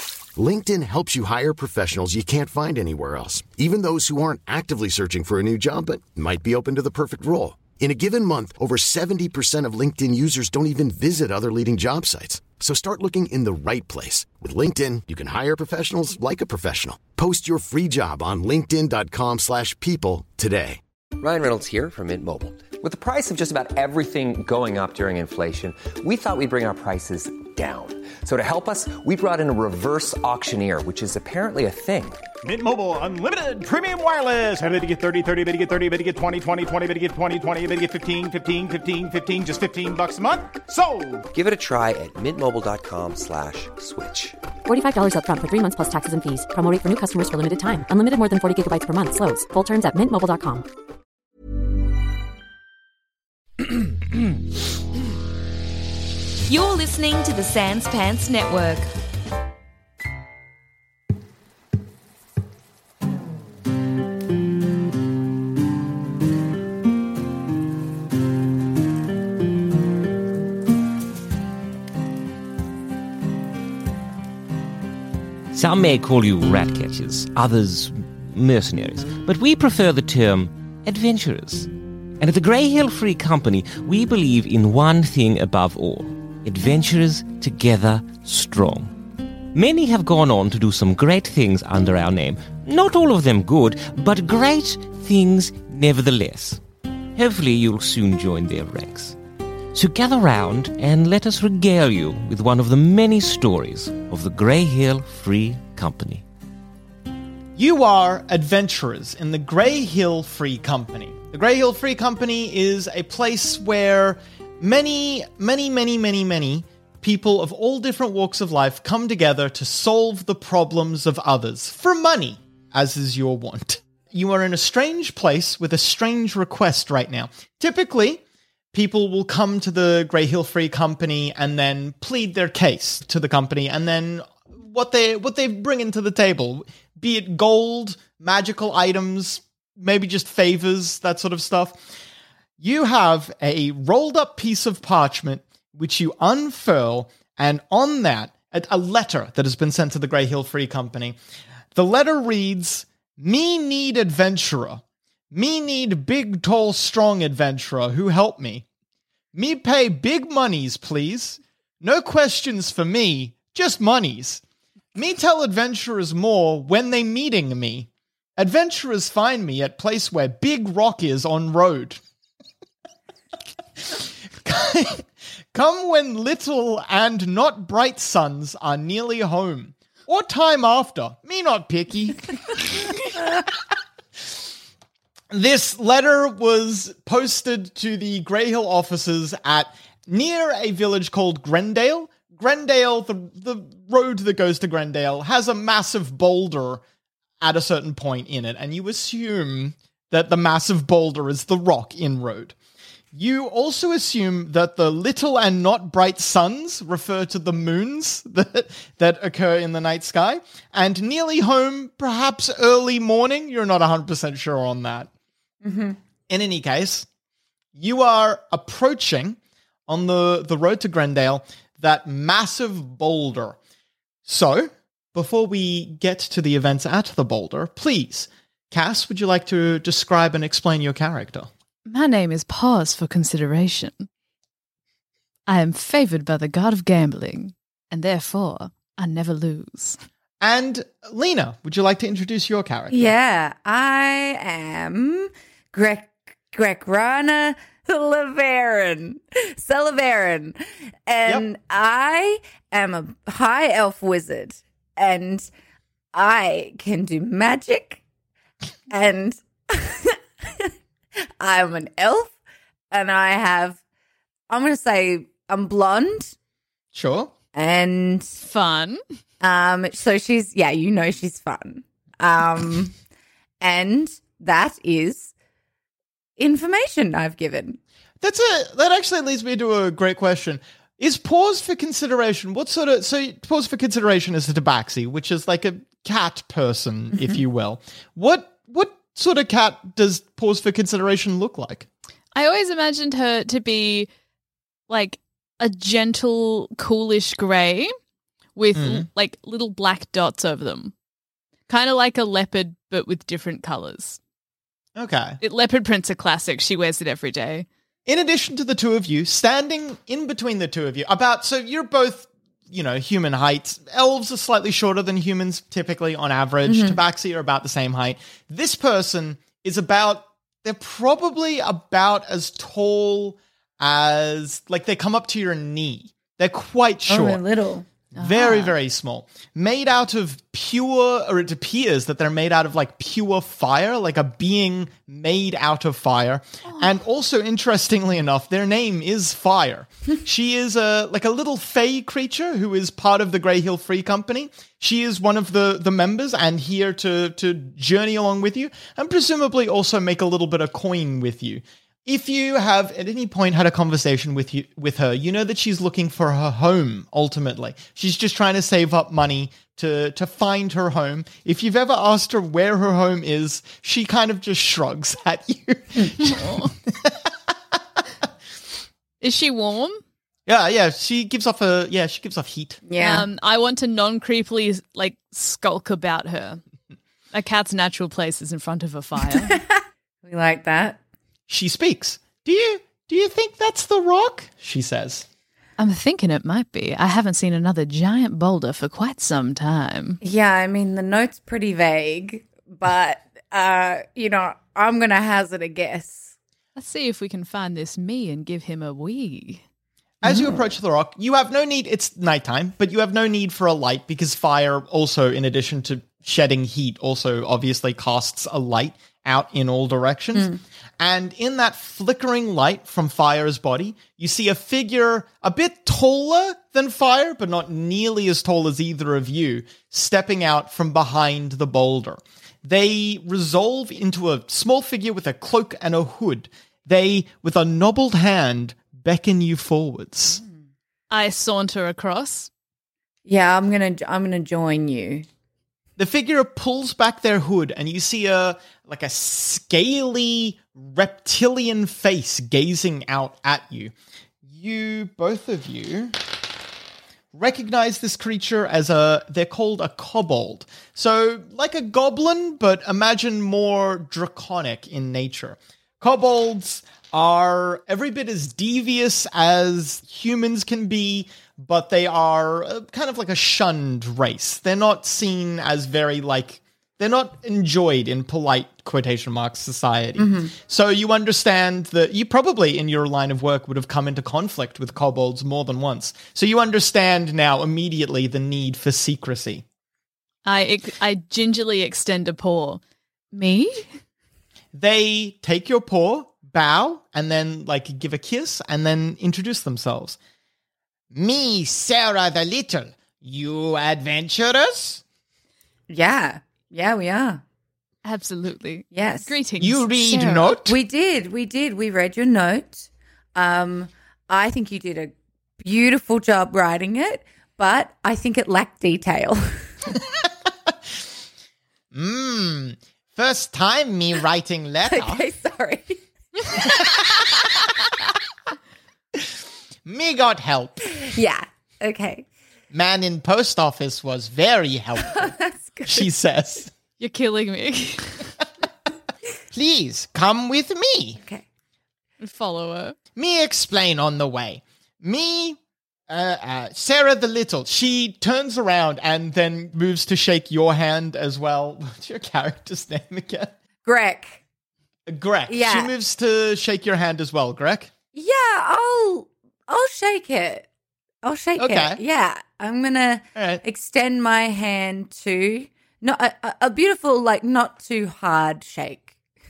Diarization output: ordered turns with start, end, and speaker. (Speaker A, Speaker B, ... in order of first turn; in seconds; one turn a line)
Speaker A: 0.3-20.8
Speaker B: 21.2-32.2
Speaker C: 32.4-41.3
Speaker B: 41.3-44.4
Speaker D: 44.6-50.7
Speaker E: 56.5-58.9
Speaker F: 75.5-88.9
Speaker F: 89.5-99.2
Speaker F: 99.7-106.2
Speaker G: 107.5-128.2
Speaker G: 128.7-141.8
Speaker G: 142.6-151.1
Speaker G: 151.7-158.7
Speaker G: 159.3-164.4
Speaker G: 164.9-172.0
Speaker G: 173.8-182.9
Speaker G: 185.3-196.8
Speaker G: 197.4-202.5
Speaker G: 203.1-215.1
Speaker H: 215.6-216.0
Speaker G: 216.3-217.1
Speaker G: 217.7-223.6
Speaker G: 224.2-231.5
Speaker I: 231.9-234.1
Speaker I: 235.5-240.0
Speaker G: 240.4-243.1
Speaker H: 242.9-255.5
Speaker H: 256.1-258.0
Speaker H: 258.9-260.7
Speaker H: 261.4-262.4
Speaker H: 262.9-263.8
Speaker H: 264.5-266.3
Speaker G: 266.9-267.3
Speaker H: 267.5-268.4
Speaker I: 268.4-269.0
Speaker H: 269.4-272.9
Speaker H: 273.6-275.3
Speaker H: 276.4-277.8
Speaker G: 278.2-291.9
Speaker I: 292.3-294.1
Speaker I: 294.9-297.9
Speaker I: 298.6-300.9
Speaker G: 298.7-299.1
Speaker I: 301.7-304.2
Speaker G: 304.9-305.4
Speaker I: 305.4-307.6
Speaker G: 308.1-327.4
Speaker H: 316.6-317.0
Speaker H: 327.1-327.9
Speaker G: 328.1-367.7
Speaker I: 328.2-328.7
Speaker H: 365.9-366.3
Speaker I: 366.4-366.7
Speaker I: 369.2-370.0
Speaker G: 370.5-372.8
Speaker H: 372.9-373.3
Speaker I: 373.0-376.6
Speaker I: 377.3-379.6
Speaker H: 379.4-381.0
Speaker G: 381.5-385.2
Speaker I: 385.8-390.2
Speaker H: 390.2-396.3
Speaker I: 396.8-399.6
Speaker G: 400.2-430.4
Speaker H: 400.2-400.6
Speaker I: 431.1-432.5
Speaker H: 433.2-435.2
Speaker G: 436.0-443.9
Speaker G: 444.5-446.1
Speaker G: 447.3-479.6
Speaker H: 470.2-470.5
Speaker I: 480.4-482.8
Speaker I: 483.3-483.9
Speaker G: 484.7-490.2
Speaker G: 491.1-495.0
Speaker H: 495.9-497.4
Speaker I: 498.0-500.6
Speaker H: 498.9-499.3
Speaker G: 499.6-500.8
Speaker H: 500.7-509.7
Speaker G: 511.9-515.2
Speaker H: 514.9-517.1
Speaker G: 519.1-520.9
Speaker H: 521.0-522.3
Speaker G: 522.7-525.3
Speaker H: 525.1-526.1
Speaker G: 525.8-526.7
Speaker I: 527.0-528.3
Speaker G: 529.5-531.2
Speaker I: 532.2-533.0
Speaker G: 533.1-543.5
Speaker H: 543.8-544.4
Speaker G: 545.1-547.9
Speaker H: 545.5-545.9
Speaker H: 548.1-550.7
Speaker H: 551.2-559.1
Speaker G: 551.6-552.0
Speaker G: 553.4-553.6